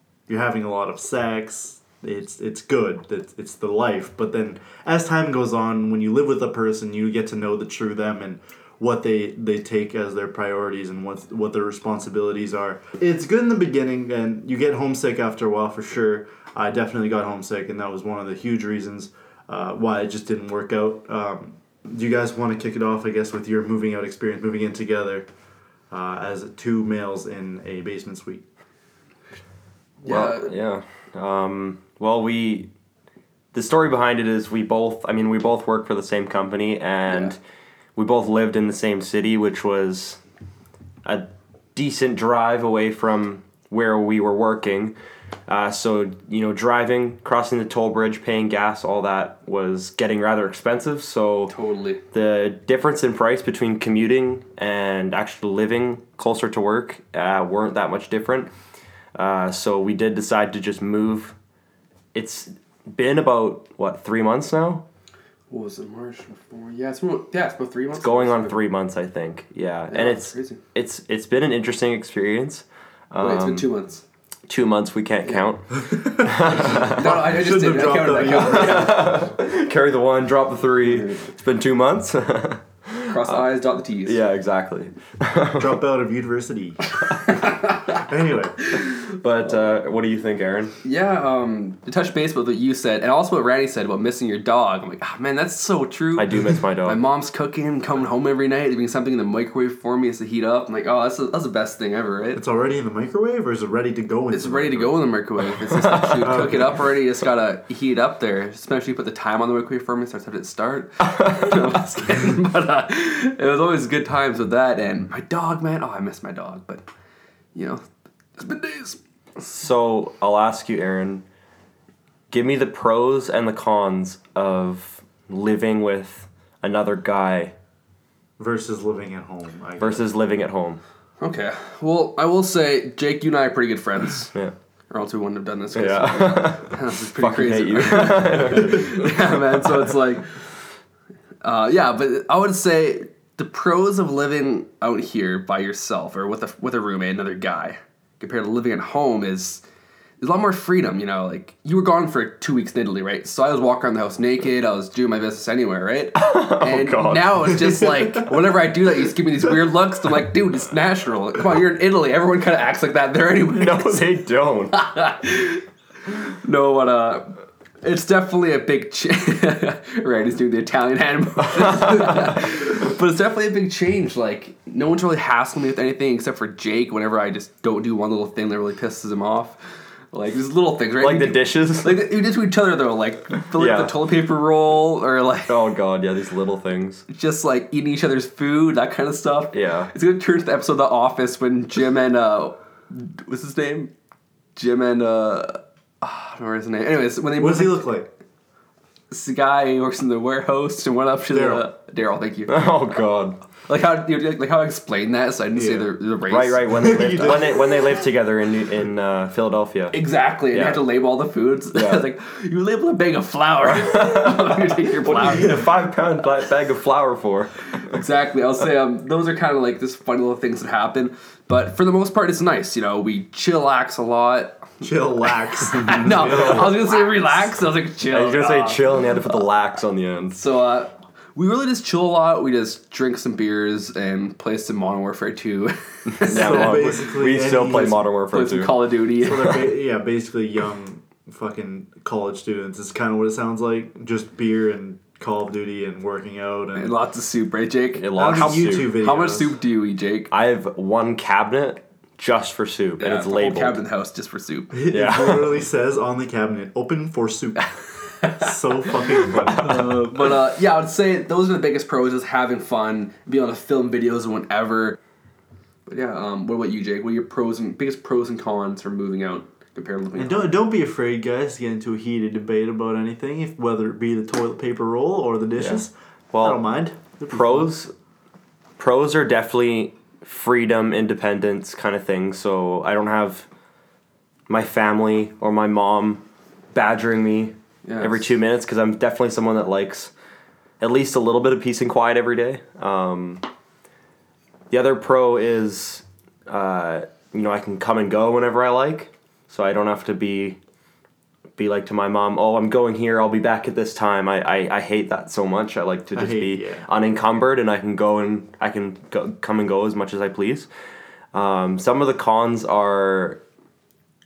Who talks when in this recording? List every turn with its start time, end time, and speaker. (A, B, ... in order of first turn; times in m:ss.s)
0:00.3-0:25.3 A
0:25.9-0:28.4 A
0:30.0-0:30.5 B
0:30.0-0:32.7 C
0:33.5-0:37.4 C
0:38.0-0:40.2 C
0:41.0-0:45.0 C
0:45.5-0:51.5 C
0:51.5-0:52.0 B
0:52.1-0:58.5 C
0:59.2-1:01.4 C
1:02.1-1:04.8 C
1:05.5-1:08.6 B
1:08.0-1:13.7 C
1:09.9-1:10.6 B
1:13.2-1:14.0 B
1:14.5-1:17.2 C
1:15.9-1:18.9 A
1:16.5-1:19.3 B
1:18.4-1:23.4 C
1:20.8-1:21.3 B
1:23.1-1:24.2 B
1:24.1-1:25.8 C
1:25.6-1:26.8 A
1:27.0-1:28.0 B
1:27.8-1:28.6 A
1:28.9-1:30.8 C
1:30.8-1:42.4 B
1:36.2-1:37.0 C
1:42.4-1:45.0 A
1:44.3-1:56.9 B
1:45.7-1:46.5 C
1:46.2-1:46.8 A
1:51.0-1:51.8 C
1:57.6-1:57.8 B
1:58.4-1:59.0 B
1:59.4-2:01.2 C
2:02.3-2:07.6 C
2:08.4-2:10.0 A
2:09.8-2:10.8 C
2:11.2-2:14.3 B
2:14.9-2:20.4 B
2:15.8-2:19.9 C
2:21.4-2:29.6 B
2:30.2-2:44.1 B
2:36.2-2:38.0 C
2:43.5-2:44.8 C
2:44.7-2:59.6 B
2:51.4-2:52.4 C
3:00.1-3:05.6 B
3:01.0-3:02.1 C
3:03.6-3:04.0 C
3:05.5-3:07.0 C
3:07.1-3:13.9 B
3:09.5-3:09.9 C
3:14.6-3:17.9 B
3:17.4-3:18.1 A
3:19.1-3:22.7 B
3:21.3-3:21.7 A
3:22.5-3:23.4 C
3:23.6-3:26.8 B
3:25.6-3:25.9 A
3:26.3-3:30.0 C
3:26.7-3:28.0 A
3:29.9-3:35.6 B
3:30.5-3:30.8 C
3:31.7-3:32.0 C
3:33.8-3:38.0 C
3:35.2-3:35.6 A
3:37.8-3:44.8 B
3:44.8-3:46.8 A
3:45.6-3:49.4 B
3:45.8-3:46.9 C
3:48.1-3:50.4 C
3:50.3-3:56.9 B
3:56.2-3:58.9 C
3:56.3-3:58.1 A
3:58.3-3:59.7 B
3:59.2-4:06.9 A
4:06.8-4:10.3 B
4:08.0-4:09.0 C
4:08.2-4:09.6 A
4:10.3-4:13.8 C
4:13.0-4:14.8 B
4:14.7-4:17.6 A
4:14.9-4:15.6 C
4:18.2-4:18.5 B
4:18.2-4:20.0 A
4:19.2-4:25.0 B
4:19.4-4:19.9 C
4:25.9-4:30.5 B
4:30.2-4:37.7 A
4:36.3-4:36.6 C
4:37.3-4:37.9 C
4:38.8-4:43.5 C
4:44.5-4:50.1 C
4:47.8-4:48.2 B
4:50.8-4:53.4 C
4:54.7-5:00.6 C
5:01.6-5:10.7 C
5:06.1-5:06.9 A
5:11.3-5:13.4 C